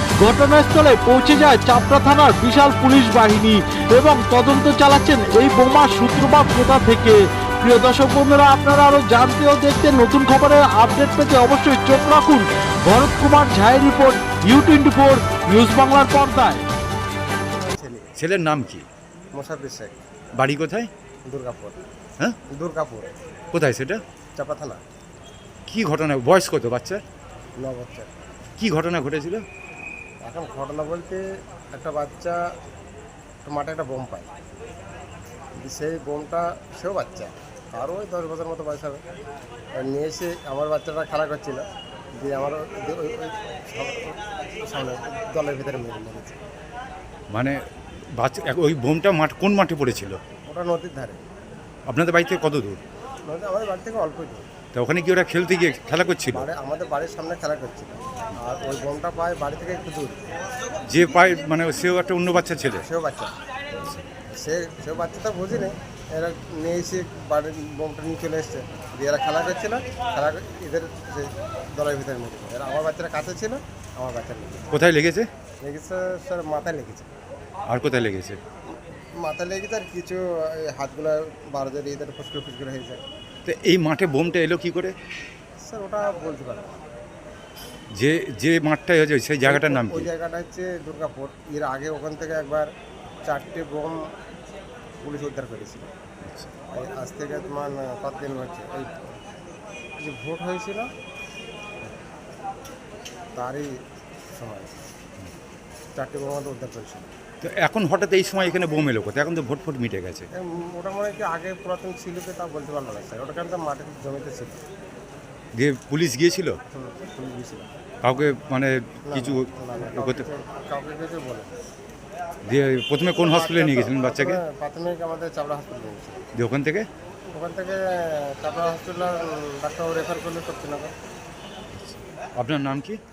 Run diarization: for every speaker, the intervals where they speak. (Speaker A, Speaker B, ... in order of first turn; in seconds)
Speaker A: 0.2-16.6
Speaker B: 17.5-18.1, 19.3-19.9, 21.3-21.8, 22.5-23.1, 24.4-24.8, 27.6-28.1, 30.2-31.2, 31.7-32.4, 33.5-34.3, 35.6-39.0, 39.8-41.6, 42.2-46.4, 50.5-51.2, 53.3-54.5, 56.3-60.2, 62.8-63.3, 64.3-74.7, 75.6-77.1, 78.7-83.0, 85.6-86.8, 89.5-92.7, 93.3-94.0, 95.0-95.9, 96.7-99.1, 100.0-100.9, 103.4-103.7, 104.4-104.8, 106.0-107.1, 110.4-114.6, 116.7-117.7, 119.1-121.5, 123.2-126.2, 127.3-130.9
Speaker C: 18.2-18.9, 20.4-20.9, 23.5-24.0, 25.7-27.0, 28.6-29.4, 47.3-47.6, 48.2-50.2, 51.9-52.8, 54.7-56.5, 60.9-62.8, 74.7-75.3, 77.7-78.4, 83.5-84.9, 88.0-90.1, 107.4-110.3, 115.6-116.6, 118.0-120.3, 122.5-124.4, 126.3-126.9, 131.7-133.0